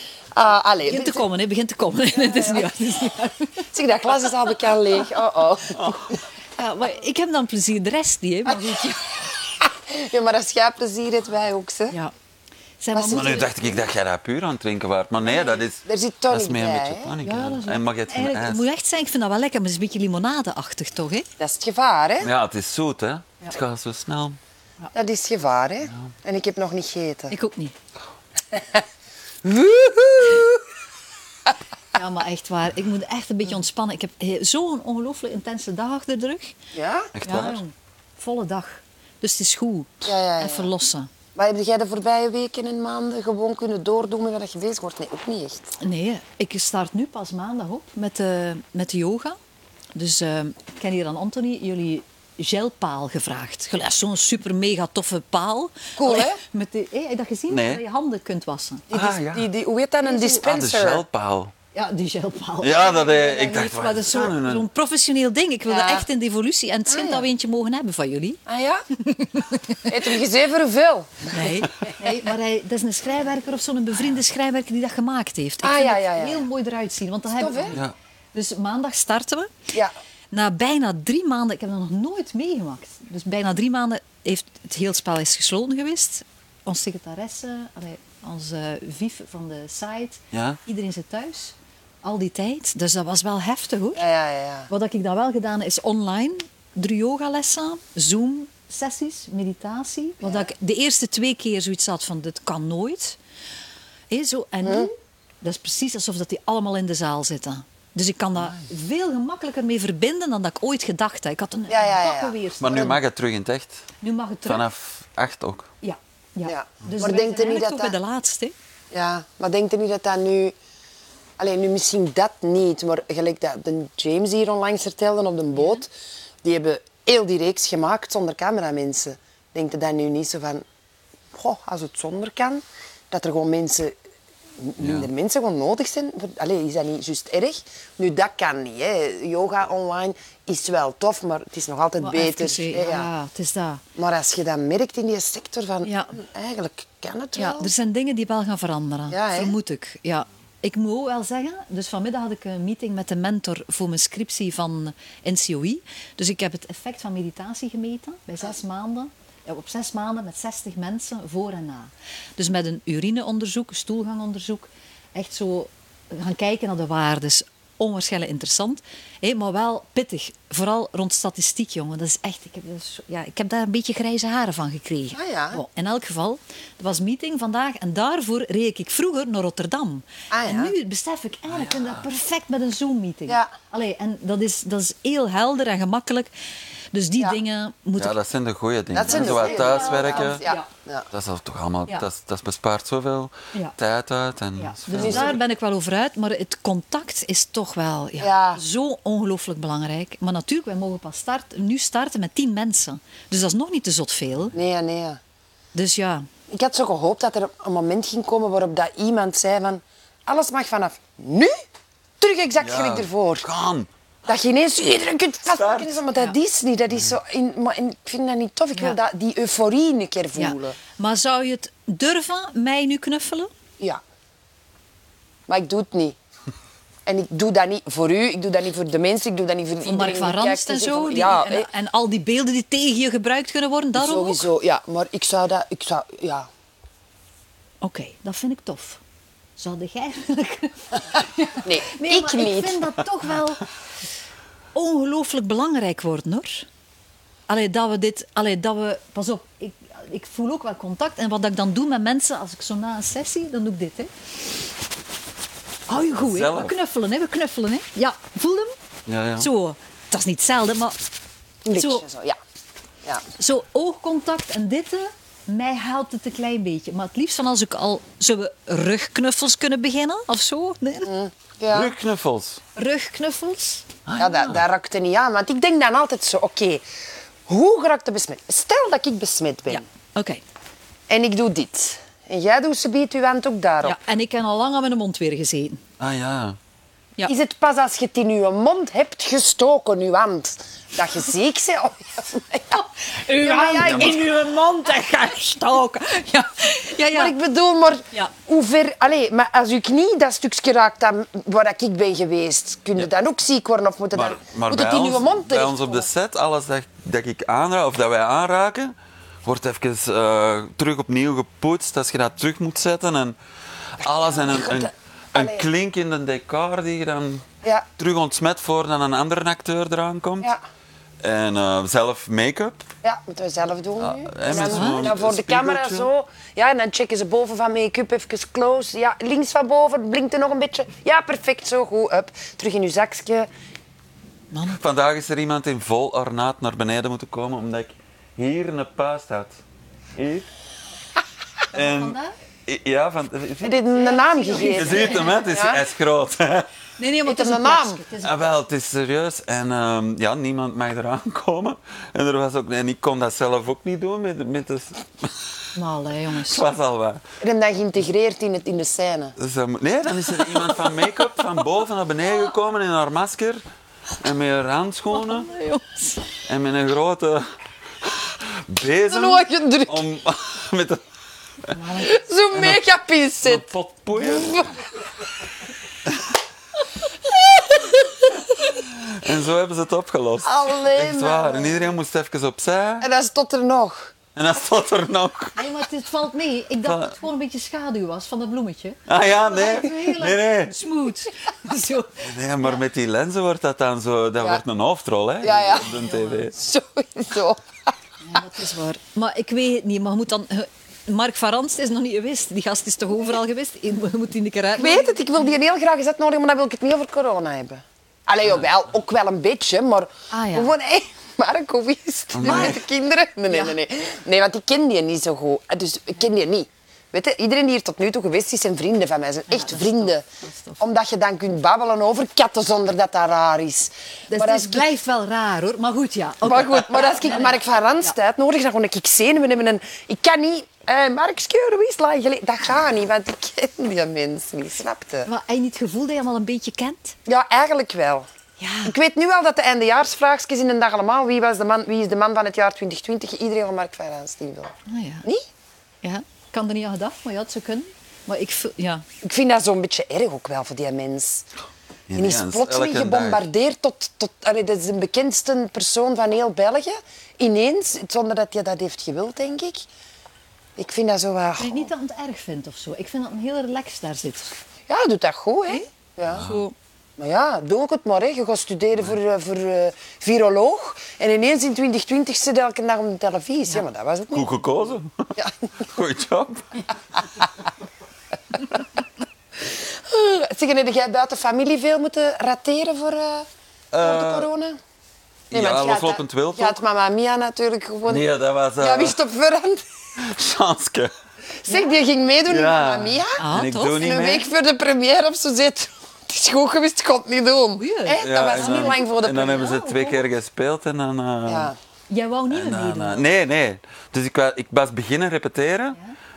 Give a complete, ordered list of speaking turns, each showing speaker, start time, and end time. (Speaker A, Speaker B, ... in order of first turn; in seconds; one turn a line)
Speaker A: 0.3-1.2
Speaker B: 0.8-3.6
Speaker A: 2.1-2.7
Speaker A: 3.7-6.2
Speaker C: 5.8-6.1
Speaker B: 6.5-9.3
Speaker A: 9.6-11.9
Speaker B: 12.8-13.5
Speaker A: 12.9-13.5
Speaker C: 13.1-18.6
Speaker A: 15.3-17.1
Speaker B: 17.2-21.2
Speaker A: 21.4-22.3
Speaker C: 22.2-24.4
Speaker A: 24.9-27.3
Speaker B: 27.3-27.7
Speaker A: 28.5-28.8
Speaker A: 29.4-30.6
Speaker B: 31.9-36.5
Speaker A: 36.7-37.1
Speaker C: 37.1-37.6
Speaker B: 37.2-41.1
Speaker A: 40.0-40.7
Speaker A: 41.3-45.7
Speaker B: 45.8-49.4
Speaker B: 49.9-58.8
Speaker A: 56.0-56.4
Speaker C: 57.5-57.8
Speaker A: 58.9-61.0
Speaker C: 58.9-59.5
Speaker B: 60.0-60.4
Speaker C: 60.4-61.5
Speaker B: 61.7-68.4
Speaker C: 62.6-64.7
Speaker A: 65.7-66.0
Speaker A: 66.9-67.3
Speaker A: 68.5-68.8
Speaker B: 69.0-69.9
Speaker A: 69.8-71.9
Speaker B: 71.3-77.8
Speaker A: 75.6-76.4
Speaker A: 77.3-77.8
Speaker B: 78.3-79.5
Speaker B: 80.3-94.0
Speaker C: 90.3-90.6
Speaker A: 94.0-94.7
Speaker B: 94.7-103.2
Speaker A: 100.2-100.5
Speaker B: 104.1-112.9
Speaker A: 104.6-104.9
Speaker A: 111.7-113.0
Speaker C: 112.6-113.8
Speaker B: 114.0-114.7
Speaker C: 114.5-115.7
Speaker B: 115.8-118.5
Speaker A: 116.4-118.0
Speaker A: 118.9-120.5
Speaker A: 121.4-125.9
Speaker A: 126.4-130.6
Speaker A: 131.3-133.9
Speaker A: 134.6-143.1
Speaker C: 134.8-135.1
Speaker B: 142.0-143.8
Speaker A: 143.9-147.7
Speaker B: 145.8-146.1
Speaker B: 147.3-186.3
Speaker A: 149.1-149.6
Speaker A: 175.1-175.6
Speaker A: 180.3-180.7
Speaker C: 181.6-182.0
Speaker B: 186.9-188.2
Speaker C: 188.0-190.4
Speaker A: 188.9-191.1
Speaker B: 189.1-190.7
Speaker C: 191.1-195.4
Speaker B: 194.6-204.5
Speaker A: 194.9-195.4
Speaker A: 198.2-198.6
Speaker A: 204.5-205.2
Speaker B: 205.7-206.3
Speaker A: 206.5-211.5
Speaker A: 212.2-213.4
Speaker C: 212.6-213.9
Speaker A: 214.2-220.8
Speaker C: 215.5-215.9
Speaker B: 220.4-223.5
Speaker A: 225.5-226.2
Speaker A: 227.1-231.7
Speaker B: 229.8-234.4
Speaker A: 233.9-236.5
Speaker B: 237.8-239.0
Speaker B: 239.6-243.7
Speaker A: 241.6-242.9
Speaker B: 244.7-246.7
Speaker B: 247.5-254.1
Speaker B: 255.9-258.7
Speaker C: 256.2-256.7
Speaker C: 259.1-259.5
Speaker B: 259.4-261.0
Speaker A: 261.6-262.4
Speaker B: 261.7-262.0
Speaker B: 263.4-271.1
Speaker A: 271.0-271.9
Speaker C: 271.7-272.6
Speaker B: 272.8-273.9
Speaker C: 274.1-274.6
Speaker A: 274.2-276.8
Speaker A: 277.5-279.8
Speaker B: 279.7-280.4
Speaker A: 281.1-284.0
Speaker B: 283.8-285.8
Speaker C: 286.0-286.6
Speaker A: 287.2-294.2
Speaker B: 292.8-297.3
Speaker C: 293.8-294.2
Speaker A: 297.1-306.1
Speaker C: 304.1-313.4
Speaker C: 313.9-317.5
Speaker A: 314.1-315.6
Speaker C: 318.0-320.5
Speaker C: 321.2-322.9
Speaker A: 323.0-333.5
Speaker C: 324.0-326.1
Speaker B: 324.7-325.1
Speaker B: 334.5-334.8
Speaker C: 334.7-339.6
Speaker C: 340.1-340.5
Speaker C: 341.7-343.8
Speaker B: 341.7-342.4
Speaker A: 343.6-345.8
Speaker B: 343.9-345.5
Speaker C: 344.6-346.7
Speaker B: 347.0-348.5
Speaker A: 347.2-348.0
Speaker C: 348.2-355.5
Speaker B: 355.7-356.6
Speaker C: 356.5-357.2
Speaker A: 357.4-359.4
Speaker C: 359.4-363.6
Speaker C: 364.2-365.5
Speaker B: 365.1-366.2
Speaker C: 366.5-367.5
Speaker C: 368.0-371.0
Speaker A: 369.1-370.0
Speaker B: 371.7-372.1
Speaker A: 372.0-374.7
Speaker C: 372.5-372.8
Speaker C: 373.4-374.6
Speaker C: 378.9-383.1
Speaker A: 380.4-381.9
Speaker A: 383.0-384.1
Speaker C: 384.3-385.7
Speaker B: 385.6-392.7
Speaker C: 386.8-387.1
Speaker C: 389.1-390.7
Speaker C: 392.2-396.5
Speaker A: 395.4-395.9
Speaker B: 395.9-396.5
Speaker A: 396.5-397.9
Speaker B: 398.2-405.3
Speaker A: 404.8-420.2
Speaker B: 410.3-410.7
Speaker C: 412.3-412.8
Speaker B: 412.4-412.8
Speaker B: 413.5-413.7
Speaker B: 419.5-420.8
Speaker A: 420.8-424.9
Speaker B: 424.3-428.1
Speaker A: 426.4-435.3
Speaker B: 435.2-437.1
Speaker A: 437.3-438.3
Speaker B: 438.6-438.9
Speaker A: 438.8-445.4
Speaker B: 444.9-445.2
Speaker B: 446.0-449.1
Speaker A: 449.2-451.4
Speaker C: 452.1-453.4
Speaker A: 452.1-459.8
Speaker A: 460.8-461.9
Speaker B: 461.6-464.5
Speaker A: 464.9-466.4
Speaker C: 466.3-466.6
Speaker B: 466.4-466.7
Speaker A: 467.2-474.5
Speaker C: 474.3-476.9
Speaker A: 475.4-475.7
Speaker A: 479.6-483.5
Speaker C: 483.9-484.5
Speaker A: 484.0-484.8
Speaker A: 485.5-488.2
Speaker C: 485.5-486.8
Speaker C: 488.1-489.2
Speaker A: 488.8-489.8
Speaker C: 490.2-491.1
Speaker A: 491.6-499.7
Speaker C: 492.4-494.5
Speaker B: 493.4-494.0
Speaker B: 497.8-500.2
Speaker C: 498.2-501.7
Speaker A: 501.4-501.8
Speaker B: 502.1-503.2
Speaker C: 502.5-506.0